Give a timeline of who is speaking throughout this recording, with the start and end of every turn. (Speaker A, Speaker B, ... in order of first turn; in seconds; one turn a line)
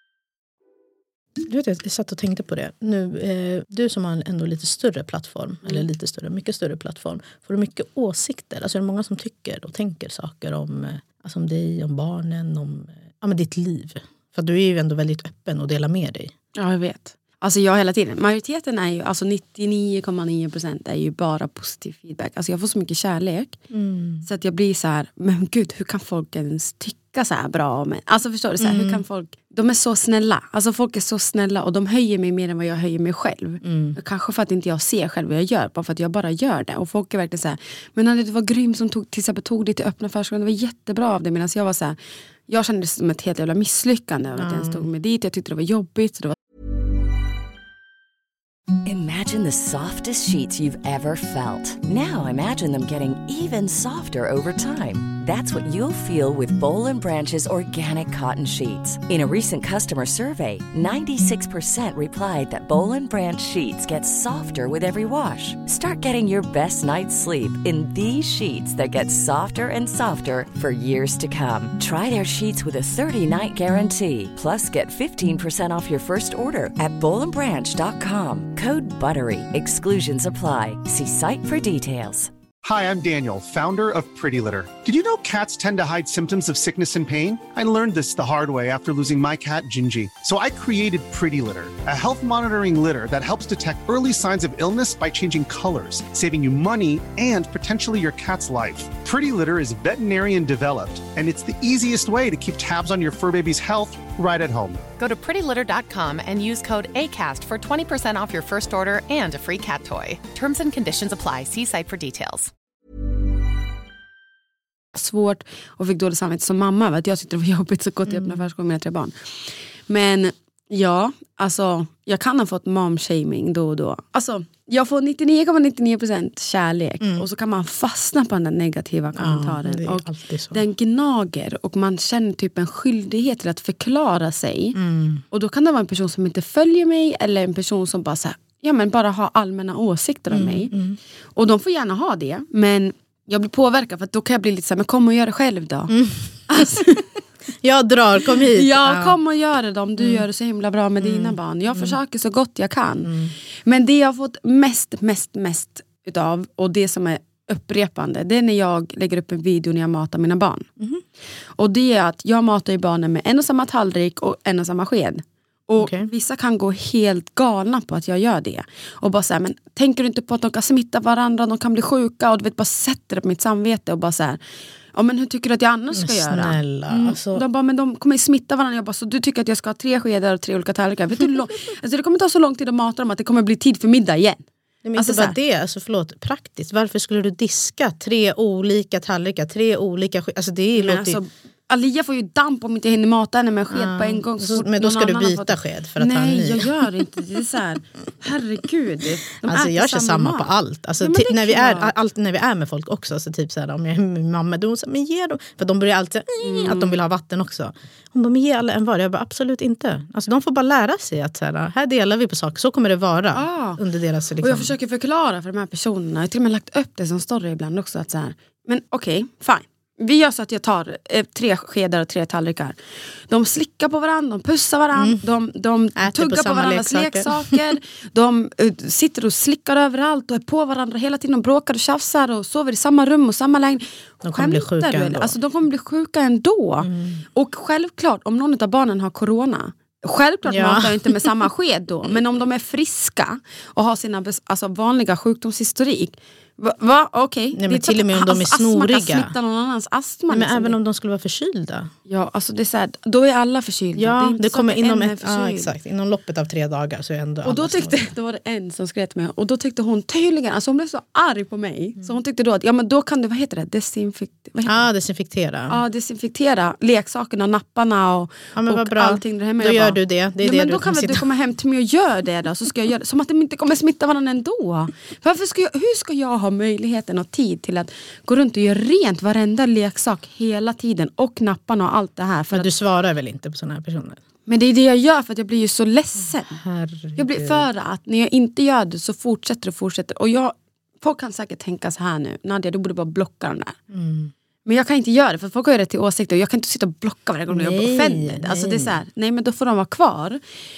Speaker A: 1.4-16.3
Speaker B: 16.5-23.6
Speaker A: 23.7-24.2
Speaker B: 24.2-42.0
Speaker A: 28.6-29.0
Speaker A: 33.6-34.0
Speaker B: 42.5-46.4
Speaker A: 44.4-44.9
Speaker C: 48.8-82.3
Speaker D: 82.6-104.9
Speaker E: 105.0-112.5
Speaker B: 114.9-134.8
Speaker A: 118.0-118.4
Speaker A: 129.2-130.6
Speaker A: 134.7-135.2
Speaker B: 135.3-140.7
Speaker A: 140.3-141.0
Speaker B: 141.3-145.9
Speaker A: 145.9-146.8
Speaker B: 146.5-147.1
Speaker A: 147.6-149.2
Speaker B: 148.5-153.1
Speaker A: 150.0-150.2
Speaker A: 151.0-152.0
Speaker A: 153.0-153.3
Speaker B: 153.7-160.7
Speaker B: 161.6-174.4
Speaker A: 165.8-166.1
Speaker B: 174.9-184.4
Speaker A: 175.9-177.4
Speaker A: 184.8-191.2
Speaker B: 184.9-185.3
Speaker B: 190.8-201.9
Speaker A: 193.7-196.7
Speaker A: 199.4-214.7
Speaker B: 206.4-206.9
Speaker B: 213.3-213.8
Speaker B: 214.4-222.8
Speaker B: 223.3-250.8
Speaker A: 224.9-225.2
Speaker A: 225.9-227.7
Speaker A: 234.2-235.3
Speaker A: 236.8-237.2
Speaker A: 240.4-241.4
Speaker A: 247.5-249.3
Speaker A: 250.3-251.9
Speaker B: 252.1-255.7
Speaker A: 254.0-258.1
Speaker B: 257.4-264.9
Speaker A: 264.6-265.8
Speaker B: 265.7-282.7
Speaker A: 268.5-271.2
Speaker A: 282.5-284.2
Speaker B: 284.5-286.6
Speaker A: 286.6-287.6
Speaker B: 287.1-293.8
Speaker A: 293.9-294.3
Speaker B: 294.6-300.4
Speaker A: 297.5-299.0